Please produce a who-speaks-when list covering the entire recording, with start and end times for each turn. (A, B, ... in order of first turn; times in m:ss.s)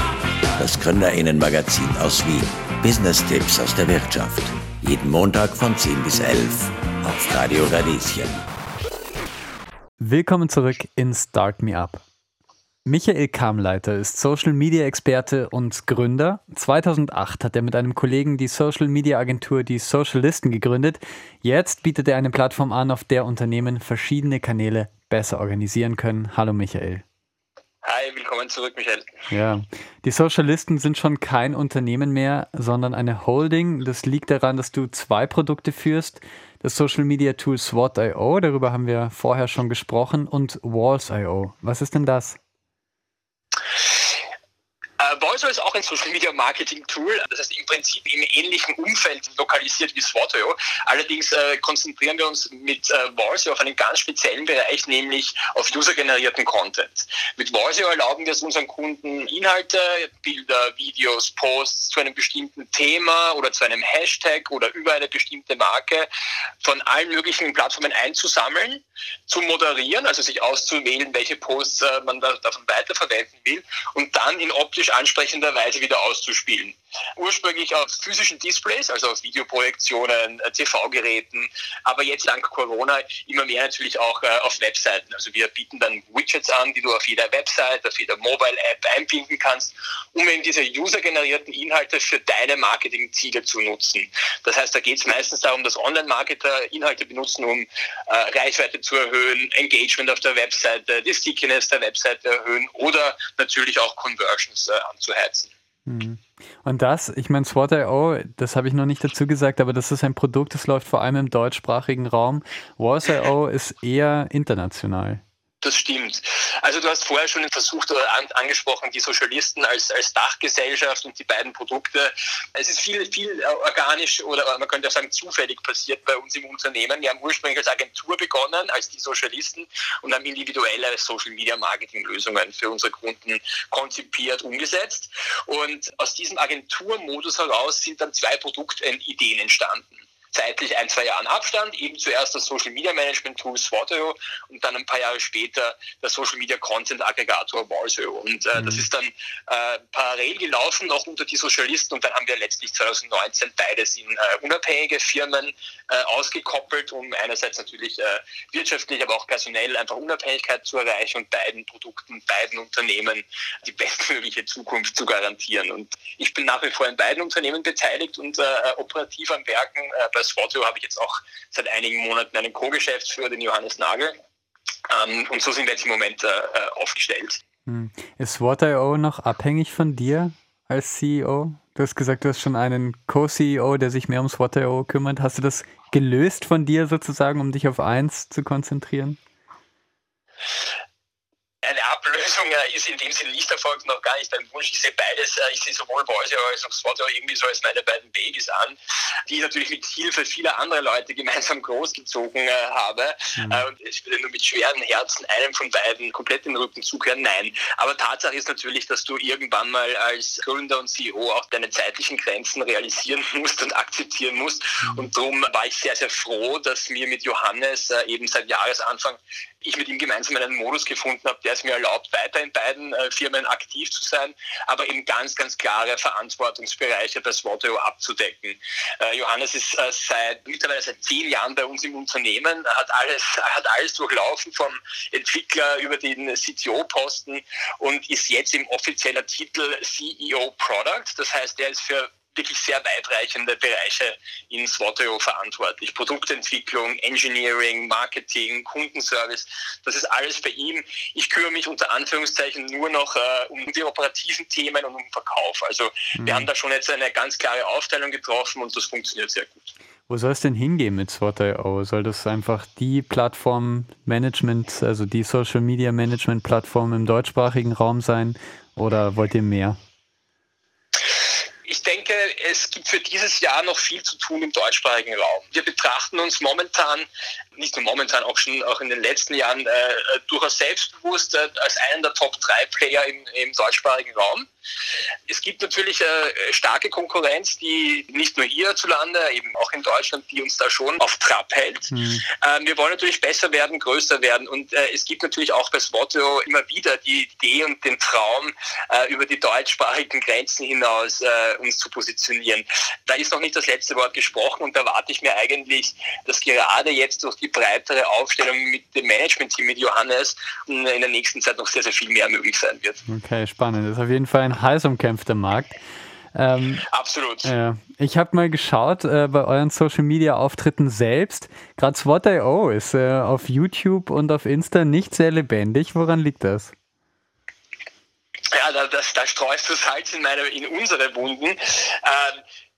0:00.6-0:08.4 A
0:10.0-0:12.0 B
0:12.8-0:27.0 B
0:27.8-0:29.1 C
0:29.3-0:42.4 B
0:45.0-1:06.1 C
1:06.6-1:45.5 C
1:45.8-1:55.2 B
1:55.6-2:54.1 C
2:28.6-2:28.8 B
2:54.9-2:57.4 C
2:57.6-3:09.2 B
3:11.6-3:18.7 C
3:19.3-4:19.7 C
3:23.4-3:23.6 B
4:16.2-4:16.5 B
4:20.1-4:29.8 B
4:31.6-4:44.5 C
4:45.3-5:13.0 C
4:51.9-4:52.2 B
5:13.1-5:15.8 B
5:16.3-5:16.8 B
5:16.9-5:17.5 C
5:17.4-5:26.7 B
5:28.5-5:32.4 C